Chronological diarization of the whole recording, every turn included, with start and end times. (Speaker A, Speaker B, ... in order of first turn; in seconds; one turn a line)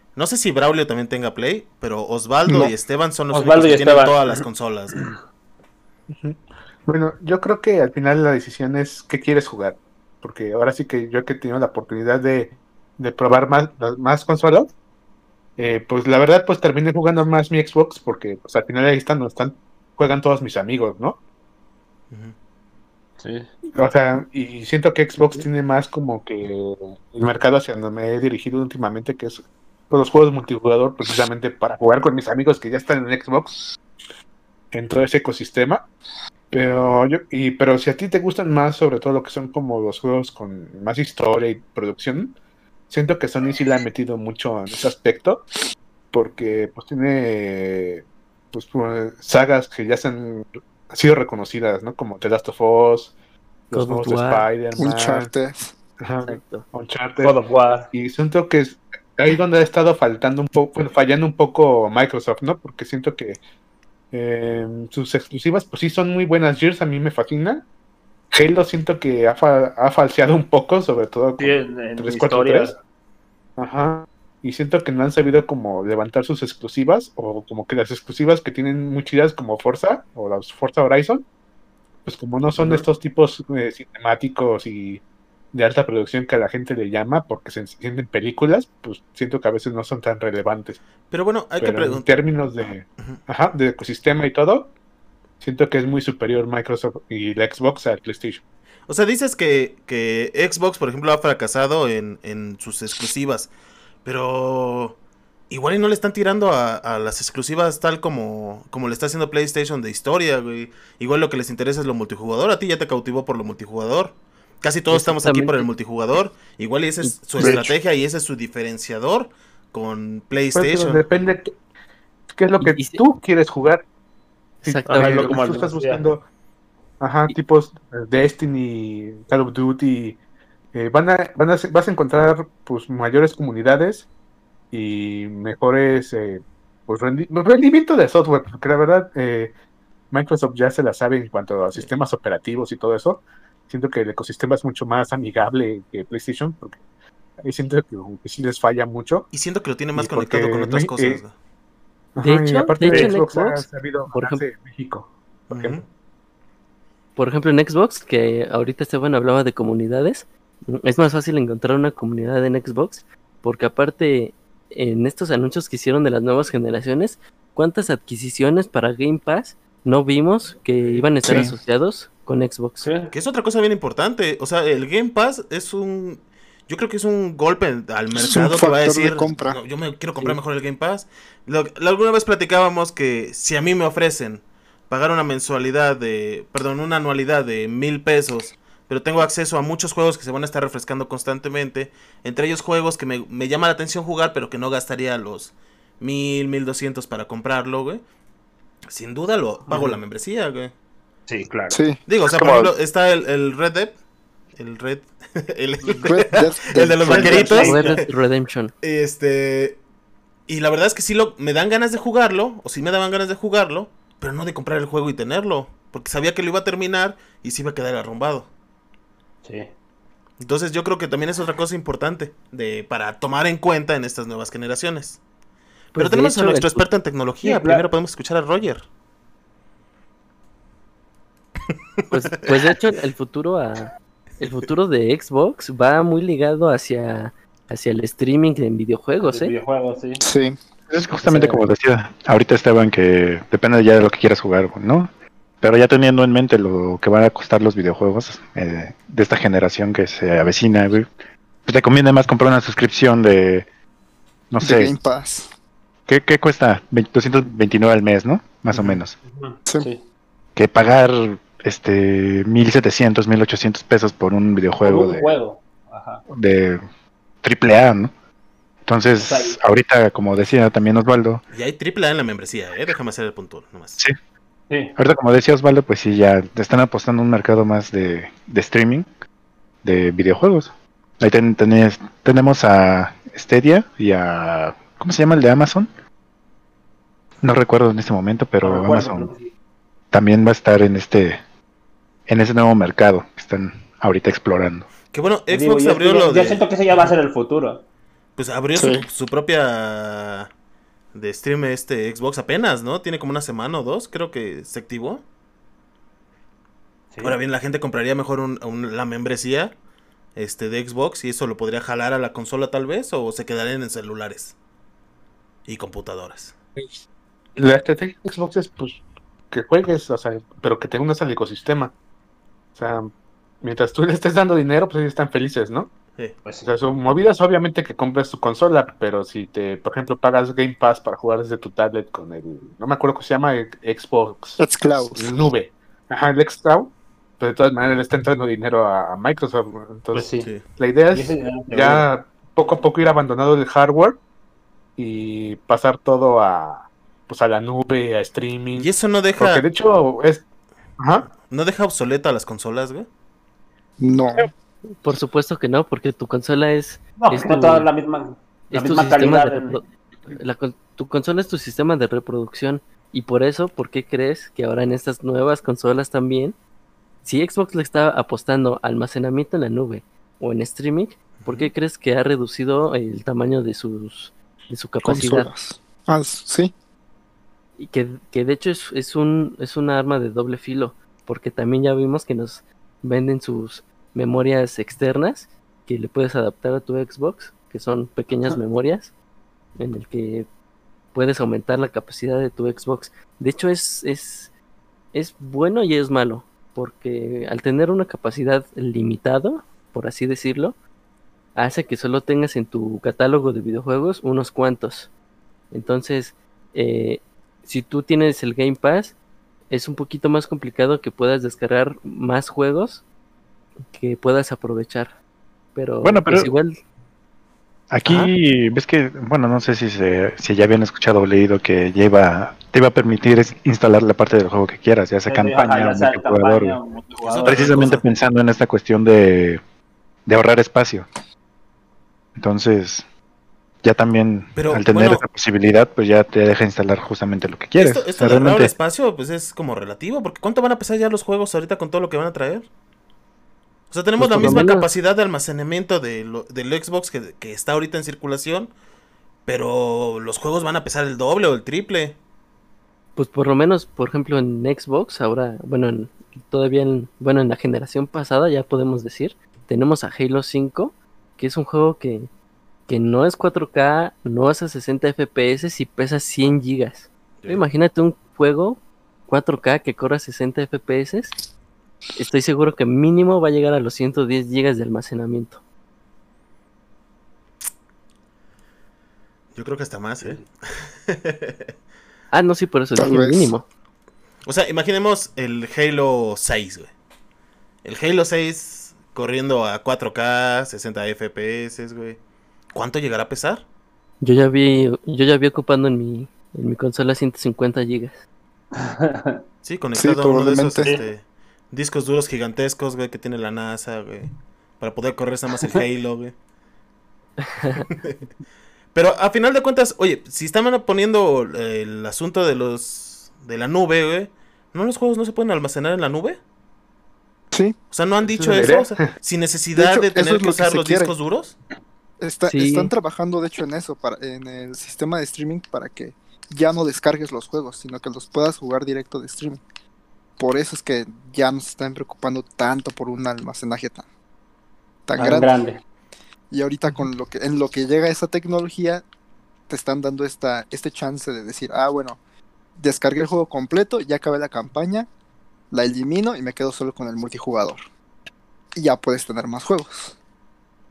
Speaker A: 0.1-5.0
Speaker B: 2.5-2.7
Speaker C: 3.3-5.2
Speaker D: 6.2-14.7
Speaker D: 15.6-21.2
Speaker C: 23.2-23.5
Speaker D: 23.7-33.8
Speaker D: 34.7-35.8
Speaker D: 36.5-42.4
Speaker D: 42.9-45.4
Speaker D: 46.1-53.1
Speaker D: 53.7-55.3
Speaker E: 53.7-54.5
Speaker B: 54.8-55.7
Speaker D: 56.0-57.4
Speaker E: 56.2-56.6
Speaker C: 57.2-57.9
Speaker D: 57.9-63.4
Speaker D: 64.1-67.6
Speaker D: 68.3-72.7
Speaker C: 71.4-72.7
Speaker D: 73.6-81.2
Speaker D: 82.0-85.0
Speaker C: 82.6-82.8
Speaker D: 85.5-90.8
Speaker A: 91.1-92.2
Speaker D: 91.6-94.7
Speaker D: 95.4-98.4
Speaker A: 98.9-103.5
Speaker A: 104.0-105.0
Speaker A: 105.5-121.0
Speaker E: 114.9-115.7
Speaker E: 117.0-117.5
Speaker C: 117.4-117.7
Speaker D: 120.5-121.5
Speaker D: 122.3-123.8
Speaker E: 122.6-123.0
Speaker E: 124.6-125.3
Speaker D: 124.6-126.2
Speaker C: 124.9-126.0
Speaker D: 127.0-130.2
Speaker D: 130.7-134.1
Speaker D: 134.7-139.5
Speaker D: 140.1-146.8
Speaker D: 147.4-149.3
Speaker A: 149.3-151.3
Speaker D: 149.9-151.2
Speaker D: 152.1-155.8
Speaker E: 152.2-154.4
Speaker C: 152.9-153.1
Speaker A: 155.5-155.8
Speaker E: 157.2-172.8
Speaker B: 171.2-171.5
Speaker C: 172.8-173.1
Speaker A: 173.1-198.0
Speaker B: 178.1-179.6
Speaker A: 198.9-200.7
Speaker C: 199.7-200.0
Speaker C: 201.3-201.8
Speaker B: 201.7-202.7
Speaker A: 202.1-203.9
Speaker A: 204.6-208.1
Speaker B: 206.0-207.7
Speaker C: 207.1-208.0
Speaker E: 207.2-208.7
Speaker A: 208.8-209.8
Speaker A: 210.5-218.5
Speaker C: 219.4-219.7
Speaker A: 220.4-225.2
Speaker E: 225.9-226.8
Speaker A: 225.9-228.8
Speaker C: 227.4-227.8
Speaker E: 232.1-239.5
Speaker C: 239.2-240.2
Speaker B: 240.2-240.6
Speaker F: 240.9-245.1
Speaker F: 245.6-251.1
Speaker F: 251.7-253.7
Speaker F: 254.5-254.9
Speaker B: 254.6-255.5
Speaker F: 256.1-259.1
Speaker C: 259.2-260.0
Speaker F: 260.6-265.3
Speaker C: 264.8-266.2
Speaker F: 266.3-266.8
Speaker F: 267.4-268.1
Speaker F: 268.9-271.4
Speaker C: 269.2-269.6
Speaker A: 271.5-274.0
Speaker F: 274.9-279.1
Speaker F: 279.8-285.9
Speaker F: 287.4-289.3
Speaker C: 288.6-289.5
Speaker F: 290.1-291.4
Speaker F: 292.3-294.9
Speaker A: 295.1-297.1
Speaker C: 295.5-297.8
Speaker A: 298.4-300.5
Speaker B: 298.8-299.1
Speaker A: 301.1-305.2
Speaker A: 307.2-309.7
Speaker A: 310.4-314.5
Speaker A: 315.7-316.5
Speaker D: 317.6-319.0
Speaker D: 319.5-321.9
Speaker D: 322.8-323.1
Speaker D: 323.6-325.9
Speaker C: 326.4-326.7
Speaker D: 326.6-334.6
Speaker B: 334.6-335.3
Speaker D: 335.1-344.2
Speaker C: 340.1-340.6
Speaker C: 341.1-342.1
Speaker D: 345.0-350.4
Speaker A: 348.7-349.6
Speaker D: 351.0-351.3
Speaker A: 351.5-353.1
Speaker B: 354.0-354.5
Speaker E: 355.0-357.9
Speaker C: 357.2-359.8
Speaker E: 358.7-366.6
Speaker E: 367.2-375.5
Speaker A: 371.4-371.7
Speaker B: 375.0-376.7
Speaker E: 377.8-389.1
Speaker E: 389.8-390.5
Speaker E: 391.1-394.5
Speaker E: 395.1-400.8
Speaker E: 401.6-405.1
Speaker E: 405.7-409.1
Speaker E: 409.7-413.0
Speaker E: 413.9-415.1
Speaker E: 415.7-416.8
Speaker F: 416.0-416.5
Speaker F: 417.9-426.8
Speaker C: 425.3-427.9
Speaker A: 427.2-428.0
Speaker F: 427.4-429.6
Speaker F: 430.2-431.1
Speaker F: 432.4-433.0
Speaker F: 433.8-438.7
Speaker A: 434.6-435.2
Speaker A: 437.8-442.7
Speaker A: 443.9-448.7
Speaker E: 444.2-444.9
Speaker F: 444.3-444.6
Speaker A: 449.4-452.2
Speaker E: 453.1-462.3
Speaker E: 462.9-471.3
Speaker E: 472.2-475.6
Speaker A: 479.5-481.7
Speaker E: 482.3-483.6
Speaker B: 482.9-483.5
Speaker A: 484.4-486.9
Speaker A: 487.8-492.2
Speaker A: 492.7-493.6
Speaker E: 494.2-498.2
Speaker C: 498.7-499.4
Speaker A: 499.6-506.3
Speaker B: 499.9-500.9
Speaker A: 507.9-508.2
Speaker A: 508.9-516.4
Speaker A: 517.9-521.5
Speaker D: 518.5-519.0
Speaker B: 519.7-521.1
Speaker B: 522.2-529.6
Speaker E: 522.5-522.9
Speaker B: 530.4-534.0
Speaker B: 535.1-535.7
Speaker C: 535.1-535.8
Speaker B: 536.5-539.0
Speaker B: 539.7-542.2
Speaker B: 542.8-545.1
Speaker B: 545.7-547.8
Speaker B: 548.7-550.1